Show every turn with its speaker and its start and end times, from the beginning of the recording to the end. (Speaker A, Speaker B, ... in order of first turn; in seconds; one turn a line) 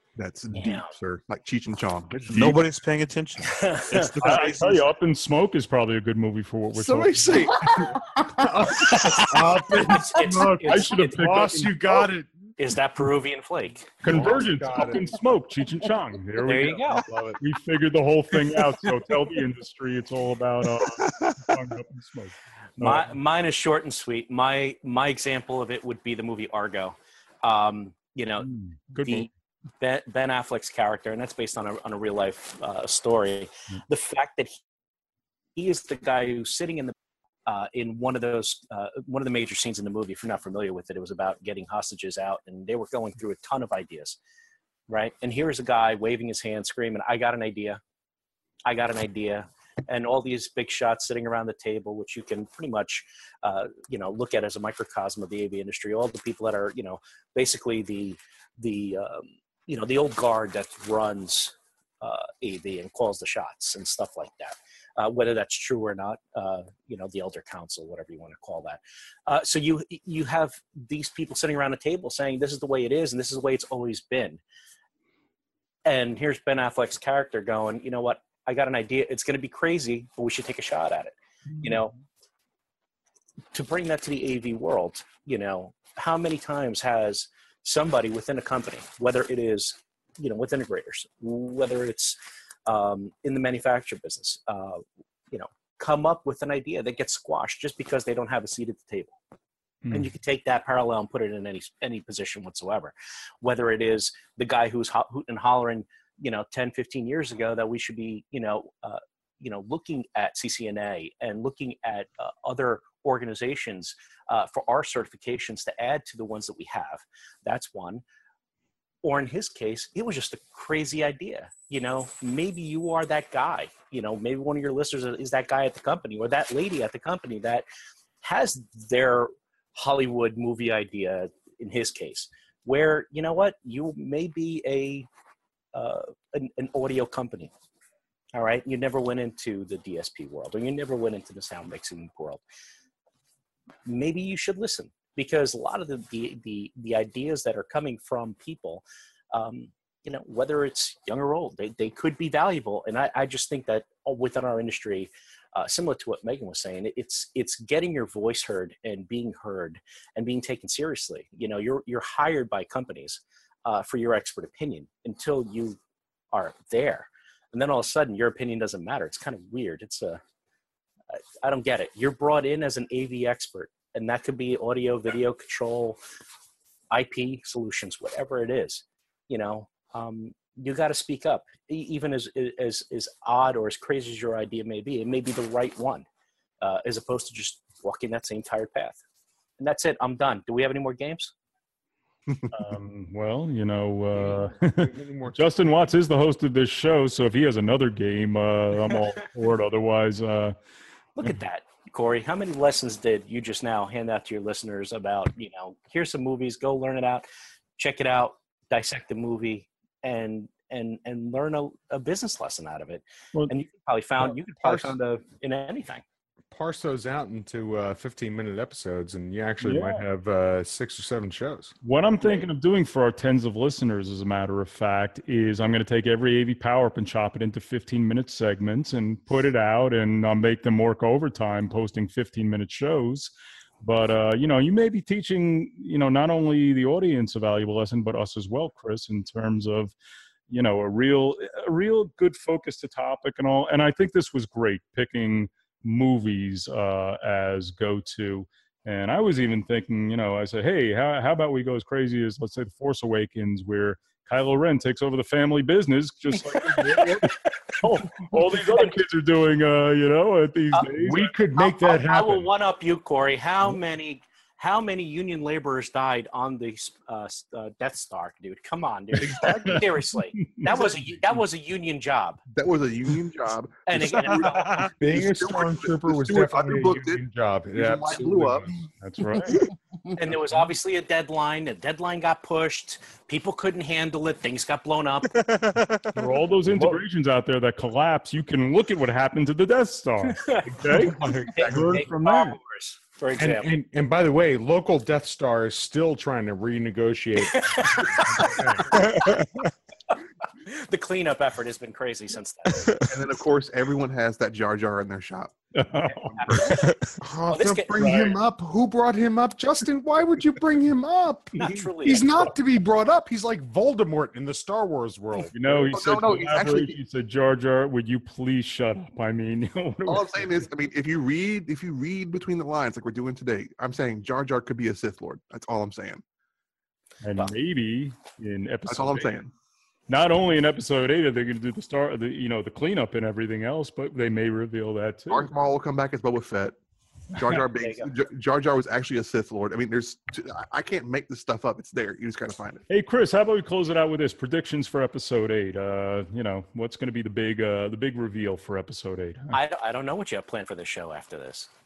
Speaker A: 0.2-2.6
Speaker B: 0.5-0.9
Speaker C: 2.3-4.8
Speaker B: 3.4-4.0
Speaker D: 4.2-7.5
Speaker A: 6.7-8.0
Speaker E: 8.2-12.3
Speaker B: 8.9-9.2
Speaker B: 9.7-11.7
Speaker D: 10.6-11.7
Speaker B: 12.6-13.9
Speaker D: 14.0-23.2
Speaker E: 14.1-15.1
Speaker B: 16.4-17.1
Speaker B: 22.8-29.3
Speaker D: 28.4-29.3
Speaker B: 29.8-34.6
Speaker B: 35.5-36.9
Speaker B: 37.5-44.2
Speaker B: 44.9-47.8
Speaker B: 48.6-74.4
Speaker B: 75.8-81.9
Speaker B: 83.5-99.1
Speaker D: 99.8-100.1
Speaker B: 99.9-118.0
Speaker B: 119.0-127.6
Speaker B: 128.2-135.1
Speaker B: 135.7-137.5
Speaker B: 138.3-142.4
Speaker B: 143.8-165.8
Speaker B: 166.3-170.2
Speaker B: 171.4-176.0
Speaker B: 176.9-186.0
Speaker B: 186.6-189.0
Speaker B: 189.6-191.3
Speaker D: 192.5-200.6
Speaker E: 194.1-195.5
Speaker B: 201.2-207.2
Speaker B: 207.8-216.0
Speaker E: 214.2-215.0
Speaker E: 216.5-221.7
Speaker D: 219.6-220.0
Speaker D: 221.8-239.9
Speaker B: 222.2-222.4
Speaker D: 240.5-261.3
Speaker B: 256.4-257.4
Speaker B: 258.7-259.0
Speaker E: 260.9-262.5
Speaker B: 261.5-272.4
Speaker A: 269.2-269.9
Speaker D: 269.4-271.4
Speaker A: 272.5-274.0
Speaker B: 273.9-274.9
Speaker E: 275.0-278.8
Speaker A: 275.0-277.2
Speaker A: 277.7-278.8
Speaker D: 279.0-279.6
Speaker B: 280.1-285.4
Speaker C: 285.4-286.1
Speaker D: 286.1-291.2
Speaker B: 290.3-293.7
Speaker E: 290.9-292.0
Speaker D: 291.7-292.6
Speaker E: 293.4-298.9
Speaker B: 297.4-299.1
Speaker C: 299.1-299.5
Speaker B: 300.7-302.9
Speaker A: 303.1-305.5
Speaker D: 305.7-306.9
Speaker B: 306.1-306.7
Speaker E: 307.2-315.9
Speaker B: 307.5-308.0
Speaker D: 308.0-308.4
Speaker B: 311.5-312.5
Speaker D: 315.5-320.7
Speaker A: 315.9-316.9
Speaker A: 320.1-326.2
Speaker D: 327.2-329.4
Speaker A: 328.9-329.5
Speaker D: 330.1-335.5
Speaker A: 335.3-336.8
Speaker A: 337.3-342.8
Speaker B: 337.6-338.1
Speaker D: 342.9-349.6
Speaker B: 349.5-351.7